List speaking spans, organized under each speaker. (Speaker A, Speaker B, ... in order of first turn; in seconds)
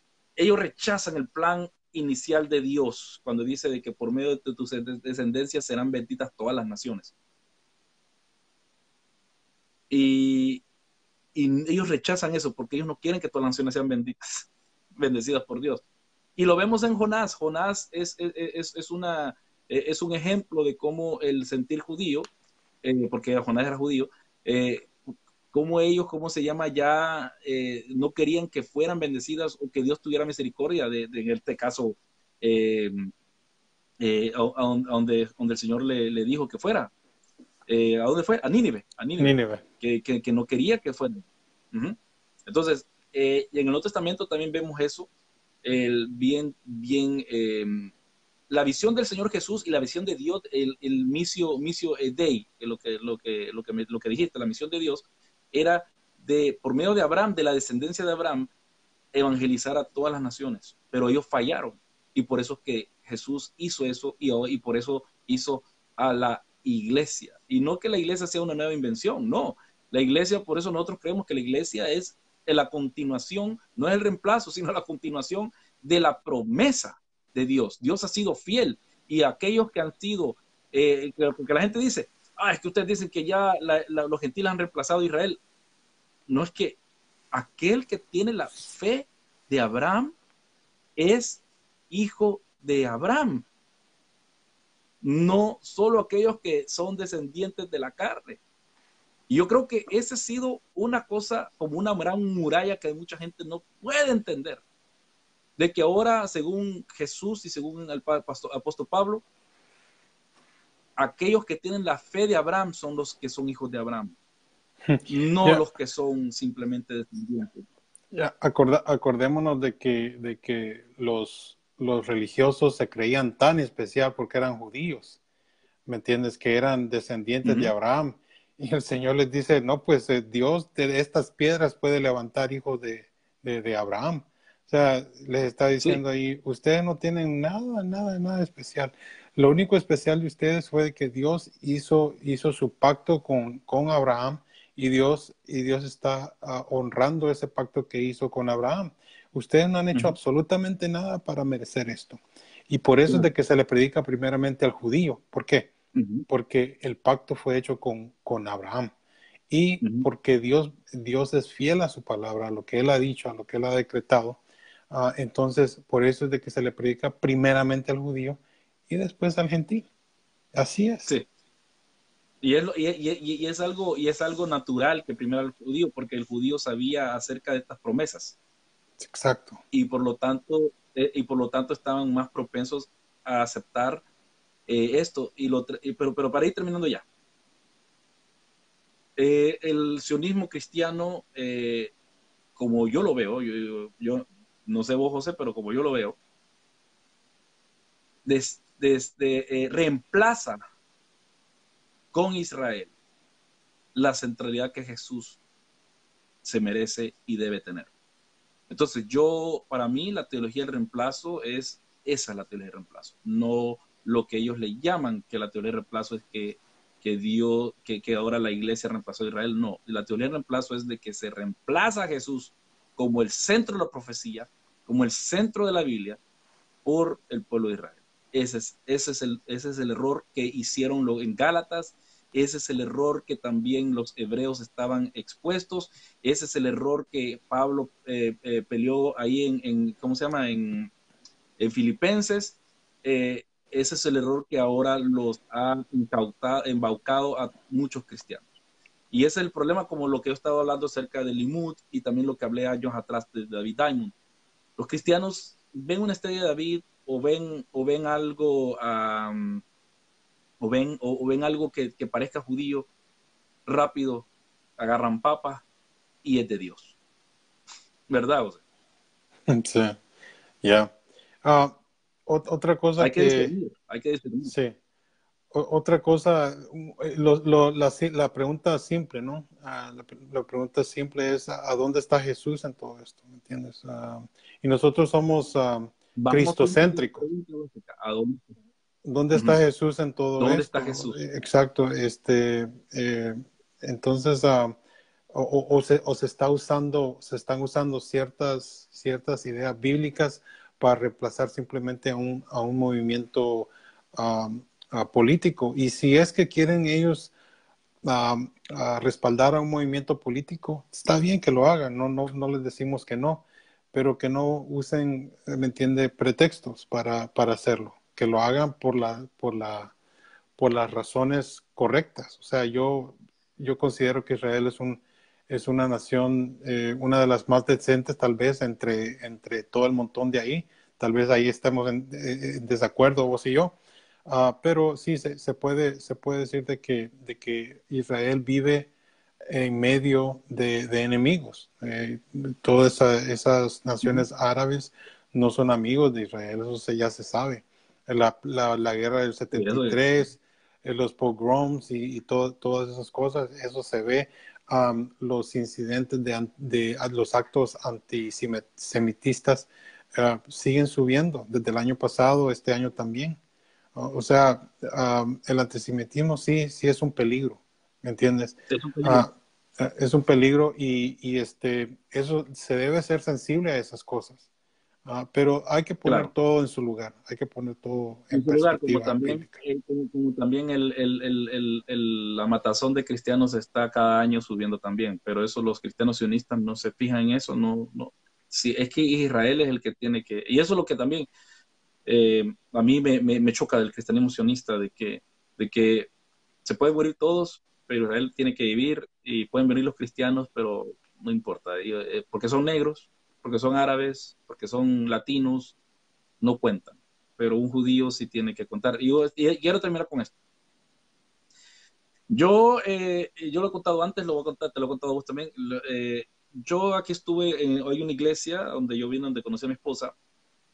Speaker A: 0.4-7.1, 9.9-10.6, 11.3-15.8, 16.4-22.3, 22.8-33.1, 34.0-36.9, 37.7-45.1, 45.6-47.9, 48.5-58.5, 59.1-85.4, 86.3-86.8, 87.3-90.2, 91.0-93.5, 95.0-98.4, 99.3-104.6, 105.6-109.2, 111.0-114.2, 115.1-117.7, 127.4-127.7, 149.9-150.2, 155.9-156.3, 159.8-160.1, 172.4-178.4, 179.7-184.0, 184.7-187.1, 189.2-191.9, 192.6-196.2, 198.2-200.6, 202.1-202.9, 203.9-205.4, 206.4-207.9, 208.7-226.2, 226.8-240.9, 241.6-248.5, 249.1-254.2, 254.8-259.6, 260.6-262.9, 263.7-265.6, 266.2-266.9, 268.1-268.6, 273.0-274.5, 286.2-288.5, 290.4-291.2, 349.5-350.0, 368.7-369.3, 376.1-376.3, 378.3-391.3, 392.1-396.1, 396.6-405.8, 406.4-410.3, 412.3-420.1
Speaker B: 39.2-39.6, 114.9-115.6, 118.1-125.2, 125.9-155.7, 156.3-158.9, 159.5-169.9, 170.5-171.1, 179.0-179.6, 269.5-270.0, 270.6-273.5, 274.4-274.8, 275.5-287.2, 289.1-294.8, 295.3-307.3, 308.1-319.9, 320.6-338.9, 339.5-363.4, 363.9-374.4, 375.1-379.6